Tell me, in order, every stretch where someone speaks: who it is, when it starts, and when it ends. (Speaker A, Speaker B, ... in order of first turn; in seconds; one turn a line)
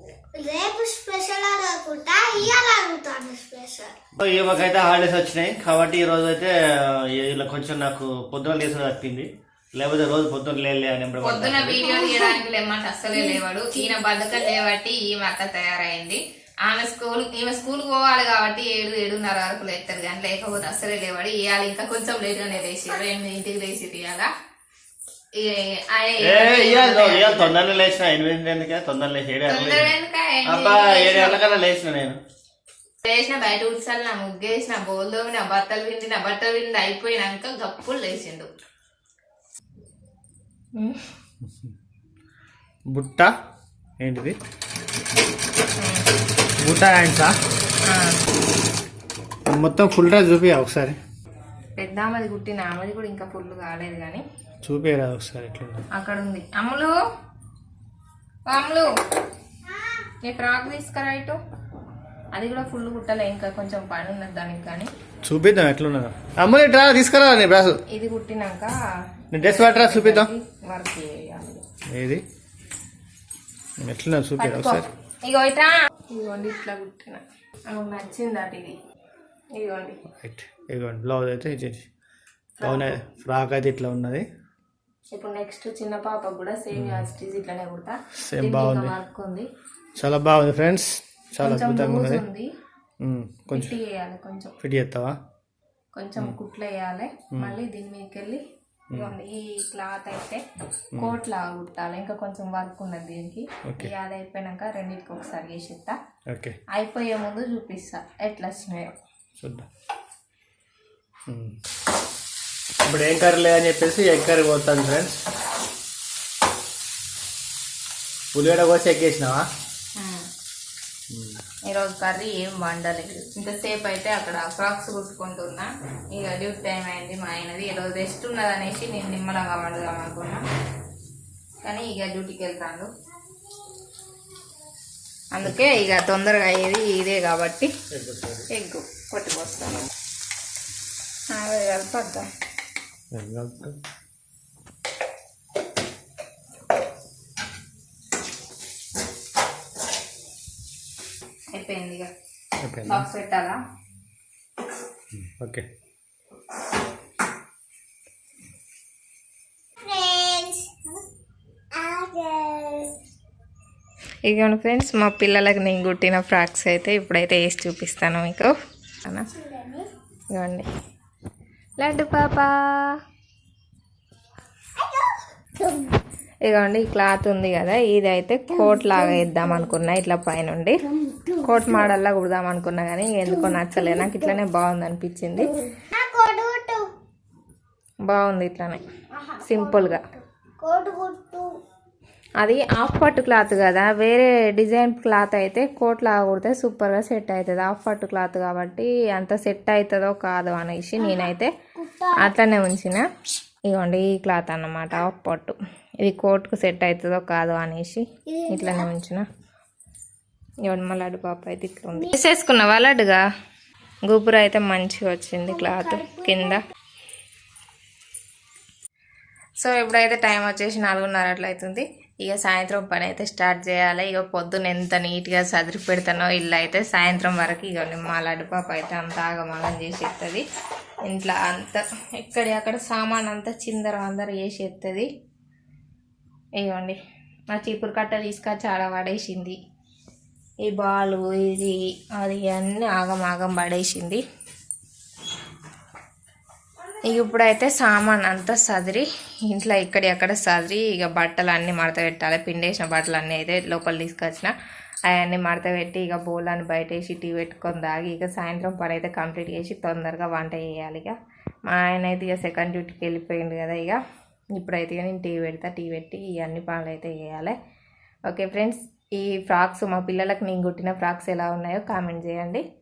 Speaker A: 0.3-3.9
Speaker B: 4.2-11.9
Speaker C: 11.2-24.3
Speaker A: 11.8-12.3
Speaker C: 25.3-27.5
Speaker B: 26.2-29.9
Speaker C: 29.5-31.6
Speaker B: 30.4-32.2
Speaker C: 33.0-38.5
Speaker C: 40.8-41.0
Speaker B: 42.9-43.3
Speaker B: 44.0-44.4
Speaker C: 45.8-46.1
Speaker B: 46.6-47.3
Speaker C: 47.8-48.2
Speaker B: 49.5-51.0
Speaker C: 51.8-54.2
Speaker B: 54.6-55.9
Speaker C: 55.9-56.9
Speaker C: 58.5-58.9
Speaker C: 60.2-61.4
Speaker C: 62.3-64.9
Speaker B: 65.2-67.8
Speaker C: 67.9-68.7
Speaker B: 69.3-70.3
Speaker C: 69.3-71.6
Speaker B: 71.9-72.2
Speaker B: 73.8-74.9
Speaker C: 74.4-78.8
Speaker C: 79.6-80.0
Speaker B: 80.1-81.8
Speaker C: 82.6-83.0
Speaker B: 82.6-84.3
Speaker C: 85.1-89.5
Speaker B: 86.7-87.1
Speaker B: 88.3-88.9
Speaker B: 90.0-92.2
Speaker C: 91.4-92.5
Speaker B: 93.0-93.7
Speaker C: 93.5-94.5
Speaker B: 94.6-95.2
Speaker C: 95.9-98.4
Speaker C: 98.9-100.4
Speaker C: 101.0-106.0
Speaker B: 103.7-103.9
Speaker B: 106.3-106.6
Speaker C: 106.7-109.0
Speaker B: 109.4-109.7
Speaker B: 111.3-111.5
Speaker B: 112.8-115.2
Speaker B: 118.3-119.5
Speaker C: 120.0-120.2
Speaker B: 121.1-121.4
Speaker C: 121.7-130.4
Speaker C: 131.6-132.9
Speaker C: 135.3-137.7
Speaker B: 137.9-138.5
Speaker C: 138.5-139.9
Speaker C: 141.3-142.3
Speaker B: 143.1-143.8
Speaker C: 151.5-152.1
Speaker B: 152.6-153.1
Speaker C: 152.8-153.6
Speaker B: 155.1-155.7
Speaker A: 159.8-161.0
Speaker A: 161.7-163.0
Speaker C: 164.2-168.5
Speaker A: 169.3-169.9
Speaker C: 170.3-170.7
Speaker C: 171.8-173.0
Speaker A: 174.8-176.0
Speaker C: 176.4-180.8
Speaker A: 178.5-179.7
Speaker A: 180.9-181.9
Speaker C: 181.4-185.5
Speaker A: 183.3-184.3
Speaker A: 185.4-186.9
Speaker C: 188.1-188.8
Speaker A: 189.1-191.5
Speaker C: 189.4-190.0
Speaker C: 192.4-201.5
Speaker A: 201.0-202.4
Speaker C: 202.2-203.1
Speaker C: 203.7-209.2
Speaker A: 208.3-208.9
Speaker C: 210.6-213.2
Speaker C: 214.0-216.6
Speaker A: 215.5-216.6
Speaker C: 219.6-230.4
Speaker C: 231.1-235.1
Speaker C: 236.6-237.0
Speaker C: 237.5-239.6
Speaker C: 240.6-244.2
Speaker C: 247.1-254.5
Speaker C: 255.1-261.2
Speaker C: 261.7-264.0
Speaker C: 264.6-267.5
Speaker C: 268.3-272.6